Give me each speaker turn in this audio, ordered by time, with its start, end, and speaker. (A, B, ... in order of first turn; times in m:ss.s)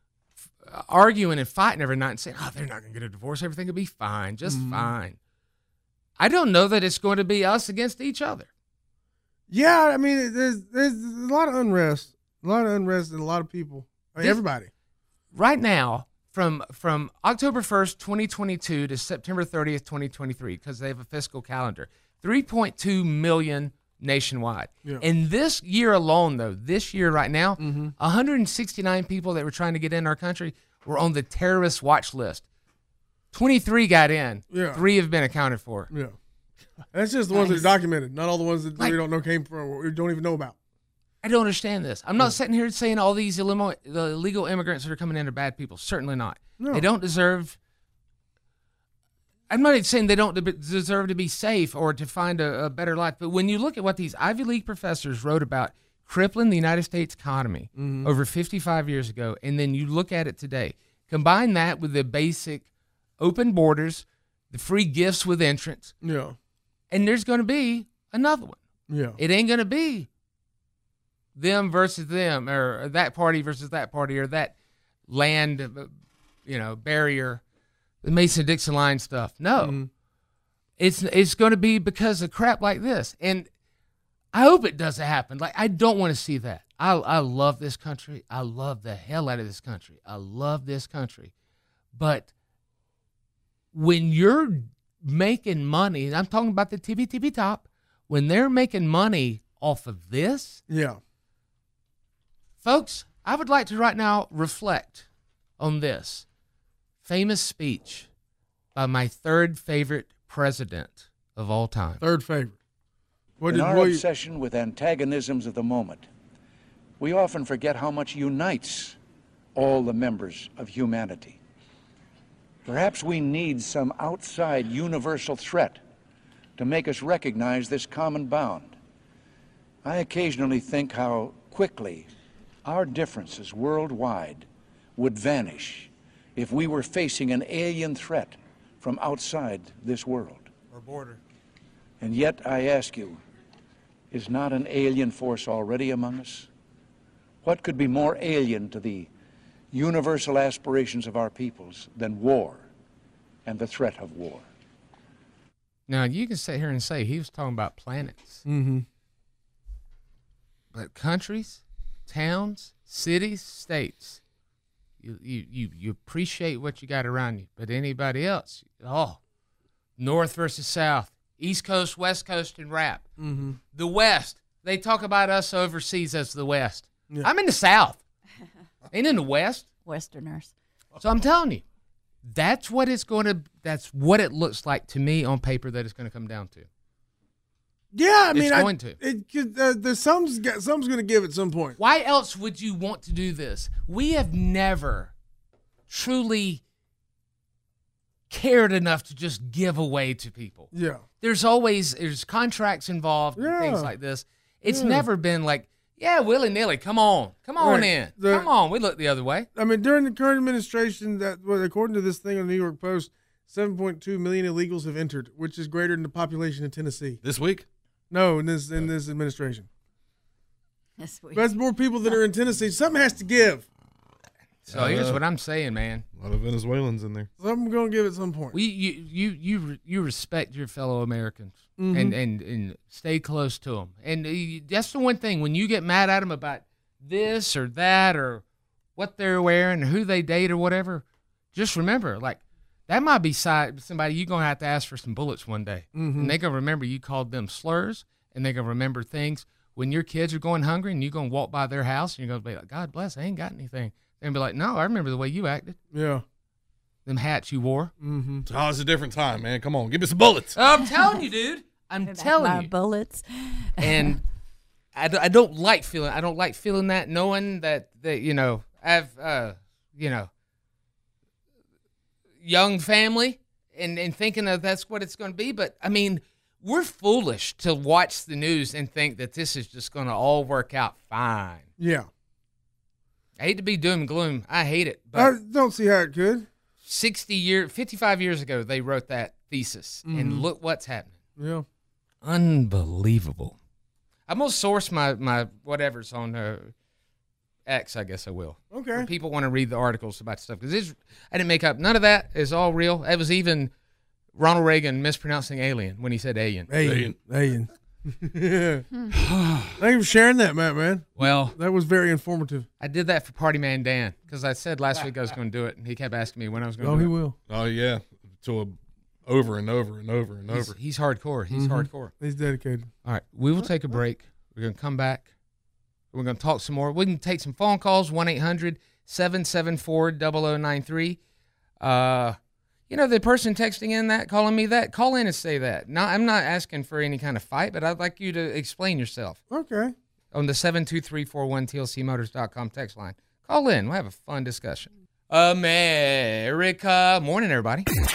0:00.6-0:05.2 A
0:04.4-0:04.9 B
0:06.2-0:08.5 A
0:09.5-0:14.7 B
0:15.3-0:32.4 A
0:27.6-0:27.9 B
0:33.3-0:35.9 A
0:34.5-0:34.8 B
0:36.9-0:40.6 B
0:37.3-0:37.7 A
0:41.2-0:47.6 A
0:46.6-0:46.8 B
0:49.5-1:02.7 A
0:57.8-0:58.1 B
1:03.2-1:05.9 A
1:06.0-1:06.4 B
1:06.9-1:08.6 A
1:08.9-1:09.2 B
1:09.2-1:10.1 A
1:11.3-1:14.5 A
1:15.1-1:15.9 A
1:16.4-1:17.4 A
1:18.0-1:19.8 A
1:19.6-1:19.9 B
1:20.8-1:23.5 A
1:24.3-1:31.3 A
1:31.9-1:32.3 A
1:33.7-1:40.6 A
1:40.7-1:41.0 B
1:42.6-1:45.1 A
1:45.6-1:46.2 A
1:47.0-1:48.1 A
1:48.7-1:52.0 A
1:52.0-1:52.6 B
1:53.4-1:54.0 B
1:53.5-1:56.1 C
1:57.0-1:59.0 C
1:59.5-2:01.4 C
2:02.6-2:05.8 C
2:06.6-2:08.8 C
2:09.8-2:12.1 C
2:12.6-2:20.5 C
2:20.7-2:21.2 A
2:22.0-2:23.2 C
2:24.1-2:26.5 C
2:27.4-2:29.1 C
2:29.7-2:32.7 C
2:33.4-2:34.5 C
2:35.9-2:38.4 A
2:38.4-2:38.8 B
2:40.7-2:44.2 A
2:45.0-2:49.2 A
2:50.0-2:53.1 A
2:53.2-2:53.6 B
2:53.7-2:58.0 A
2:58.9-2:59.7 A
2:59.8-3:00.5 D
3:01.0-3:01.6 A
3:02.2-3:06.7 A
3:07.9-3:11.8 B
3:08.3-3:09.0 A
3:11.8-3:15.1 A
3:15.9-3:16.6 A
3:18.3-3:20.7 A
3:20.7-3:21.0 B
3:21.2-3:29.5 A
3:23.4-3:23.9 B
3:24.7-3:25.0 B
3:27.6-3:28.5 B
3:29.5-3:37.2 B
3:37.2-3:37.6 E
3:38.1-3:39.7 B
3:41.0-3:42.2 D
3:41.3-3:43.6 B
3:44.7-3:46.0 A
3:44.7-3:45.2 E
3:46.1-3:47.3 E
3:47.4-3:48.6 B
3:48.5-3:58.4 A
3:51.8-3:52.2 B
3:59.0-4:15.8 A
4:05.9-4:06.3 B
4:15.9-4:16.2 B
4:17.0-4:17.9 A
4:18.0-4:18.4 B
4:18.4-4:20.5 E
4:20.5-4:22.7 A
4:20.8-4:21.2 D
4:22.0-4:24.2 D
4:23.8-4:24.2 A
4:24.9-4:30.3 A
4:32.4-4:41.7 A
4:41.8-4:42.1 B
4:43.4-4:45.3 A
4:45.1-4:46.5 B
4:46.8-4:51.1 A
4:50.0-4:50.5 B
4:51.4-4:51.6 B
4:52.2-4:53.6 A
4:54.3-4:56.7 A
4:57.7-5:03.7 A
4:58.7-4:59.1 B
5:04.3-5:06.7 A
5:06.7-5:08.8 B
5:06.8-5:07.2 E
5:09.8-5:12.7 B
5:11.2-5:11.6 A
5:12.8-5:17.1 A
5:16.8-5:17.4 B
5:17.5-5:20.8 E
5:20.5-5:22.1 A
5:21.5-5:22.9 B
5:23.0-5:25.3 A
5:26.1-5:31.2 A
5:31.8-5:32.4 A
5:32.9-5:39.4 A
5:39.5-5:39.9 B
5:40.3-5:47.9 A